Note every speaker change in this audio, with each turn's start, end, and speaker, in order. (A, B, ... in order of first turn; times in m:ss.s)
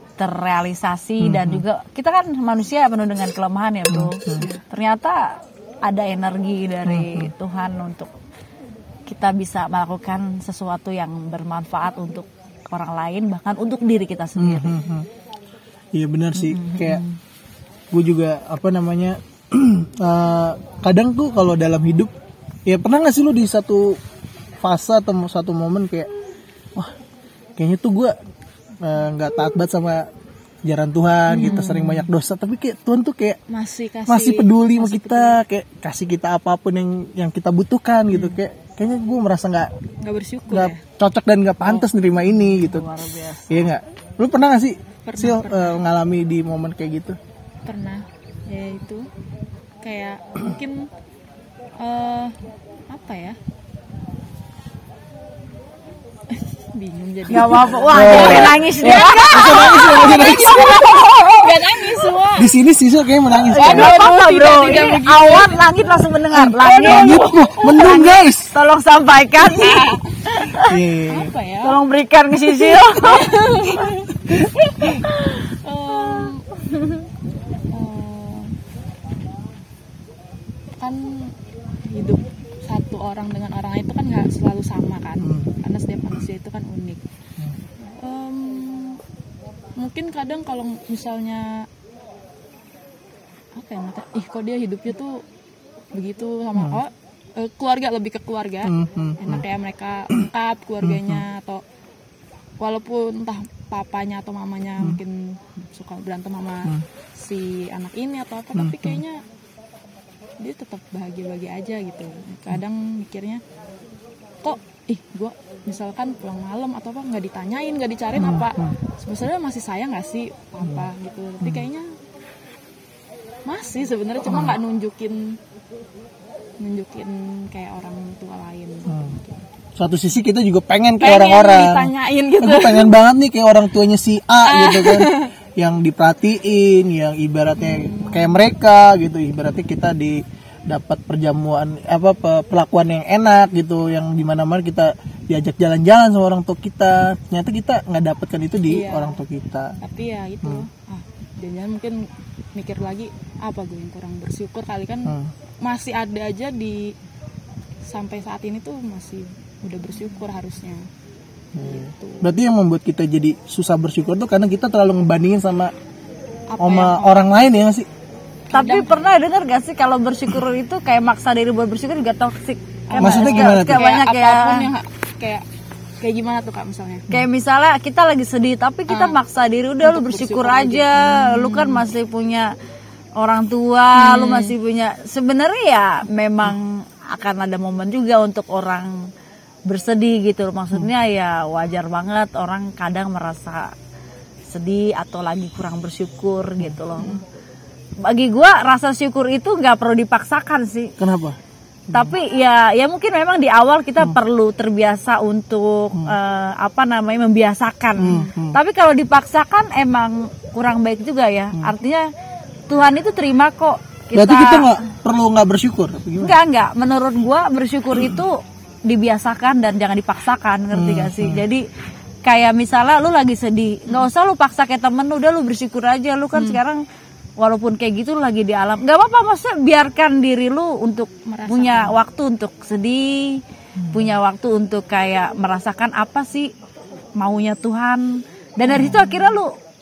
0:00.2-0:08.1 A
0:01.2-0:01.6 B
0:03.9-0:04.5 B
0:04.3-0:04.6 C
0:06.8-0:07.3 B
0:09.1-0:14.8 A
0:14.4-0:15.1 B
0:15.9-0:17.0 B
0:16.4-0:17.2 A
0:17.9-0:22.1 B
0:22.7-0:24.0 B
0:24.6-0:26.1 B
0:27.6-0:28.2 B
0:28.8-0:30.1 B
0:30.6-0:33.4 B
0:31.3-0:32.1 C
0:33.5-0:35.4 C
0:34.1-0:39.7 B
0:40.0-0:40.8 C
0:40.5-0:42.9 B
0:42.4-0:43.4 A
0:43.5-0:47.2 B
0:45.0-0:45.8 C
0:47.7-0:49.1 C
0:49.8-0:50.9 C
0:51.8-0:52.4 C
0:52.9-0:53.4 C
0:56.3-1:02.5 C
0:57.3-1:01.5 A
0:57.9-1:01.0 B
1:02.4-1:04.0 B
1:03.5-1:10.7 A
1:03.5-1:05.9 C
1:06.3-1:08.5 B
1:06.8-1:07.3 C
1:09.5-1:10.0 C
1:10.6-1:11.3 B
1:11.1-1:11.8 C
1:11.6-1:13.7 A
1:12.8-1:13.9 C
1:14.8-1:15.0 A
1:15.1-1:16.4 C
1:16.1-1:16.9 A
1:17.7-1:18.5 C
1:20.8-1:21.3 C
1:21.9-1:27.0 C
1:25.2-1:25.5 B
1:27.8-1:29.0 C
1:29.8-1:31.7 C
1:33.6-1:35.2 C
1:35.9-1:41.6 C
1:38.6-1:39.4 B
1:40.8-1:41.2 B
1:42.6-1:49.2 C
1:48.6-1:49.0 B
1:50.4-1:53.4 C
1:54.4-2:01.9 C
1:58.2-1:58.8 B
2:01.4-2:01.7 B
2:03.4-2:05.4 C
2:04.3-2:04.6 B
2:06.6-2:09.4 C
2:08.9-2:09.2 B
2:09.8-2:29.8 B
2:11.0-2:12.9 C
2:14.4-2:15.3 C
2:17.6-2:18.3 C
2:28.7-2:29.2 C
2:29.8-2:36.9 C
2:35.1-2:35.3 B
2:37.9-2:40.8 C
2:41.6-2:45.7 B
2:41.6-2:42.4 C
2:46.5-2:47.2 C
2:46.6-2:47.9 B
2:48.5-2:49.0 C
2:48.5-2:54.7 A
2:52.9-2:55.4 C
2:53.0-2:53.8 B
2:56.0-2:57.1 C
2:57.1-3:02.6 A
2:58.9-2:59.2 C
2:59.8-3:01.8 C
3:03.2-3:09.1 A
3:04.0-3:04.6 C
3:09.7-3:13.7 A
3:14.5-3:17.2 A
3:18.0-3:20.9 A
3:21.0-3:21.4 B
3:21.9-3:32.1 A
3:28.0-3:28.6 B
3:32.7-3:34.7 A
3:34.1-3:36.4 B
3:36.2-3:41.6 A
3:40.7-3:41.4 B
3:42.2-3:46.8 A
3:46.3-3:46.6 C
3:47.4-3:56.5 A
3:51.2-3:52.0 C
3:53.8-3:54.1 B
3:57.2-3:59.5 A
3:58.7-3:59.1 B